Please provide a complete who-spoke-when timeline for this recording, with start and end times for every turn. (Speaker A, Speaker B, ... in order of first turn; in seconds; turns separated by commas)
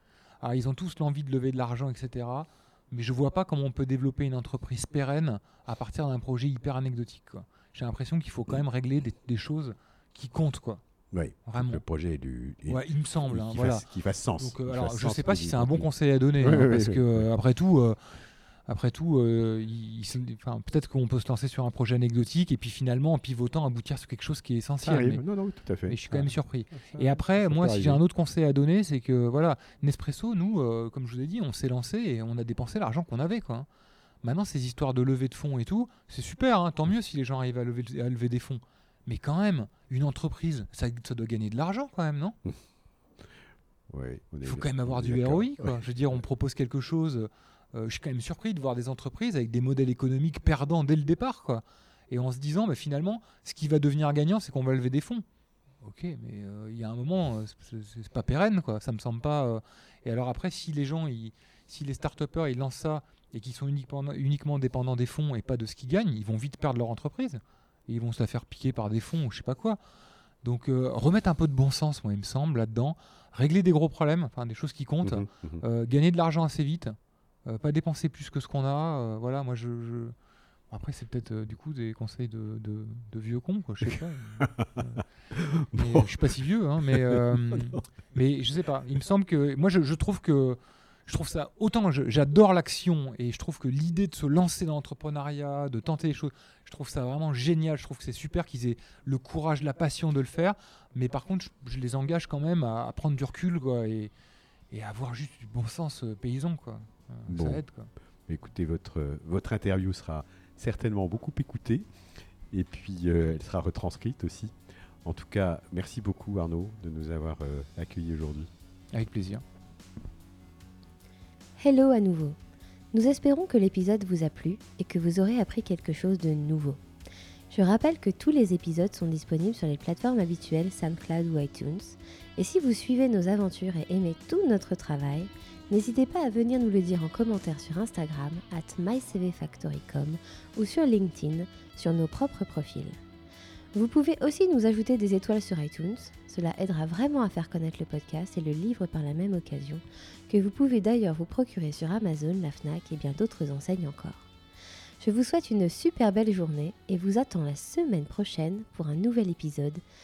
Speaker A: 0.4-10.8, Speaker B: 11.1-17.3, Speaker A: 11.5-11.8, Speaker A: 12.7-13.9, Speaker A: 14.4-25.2, Speaker B: 24.8-26.3, Speaker A: 25.9-33.7, Speaker B: 26.8-28.0, Speaker A: 34.2-42.4, Speaker B: 43.9-45.8, Speaker A: 44.4-55.2, Speaker A: 55.8-69.8, Speaker A: 70.4-80.1, Speaker B: 75.0-75.6, Speaker A: 80.7-85.0, Speaker B: 84.4-84.8, Speaker B: 85.3-86.3, Speaker A: 85.7-104.1, Speaker B: 86.9-87.8, Speaker A: 104.7-107.9, Speaker B: 107.3-107.6, Speaker B: 108.3-111.9, Speaker B: 112.5-118.5, Speaker A: 118.9-119.4, Speaker C: 121.6-122.4, Speaker C: 122.9-126.8, Speaker C: 127.5-143.0, Speaker C: 143.7-154.3, Speaker C: 155.0-159.8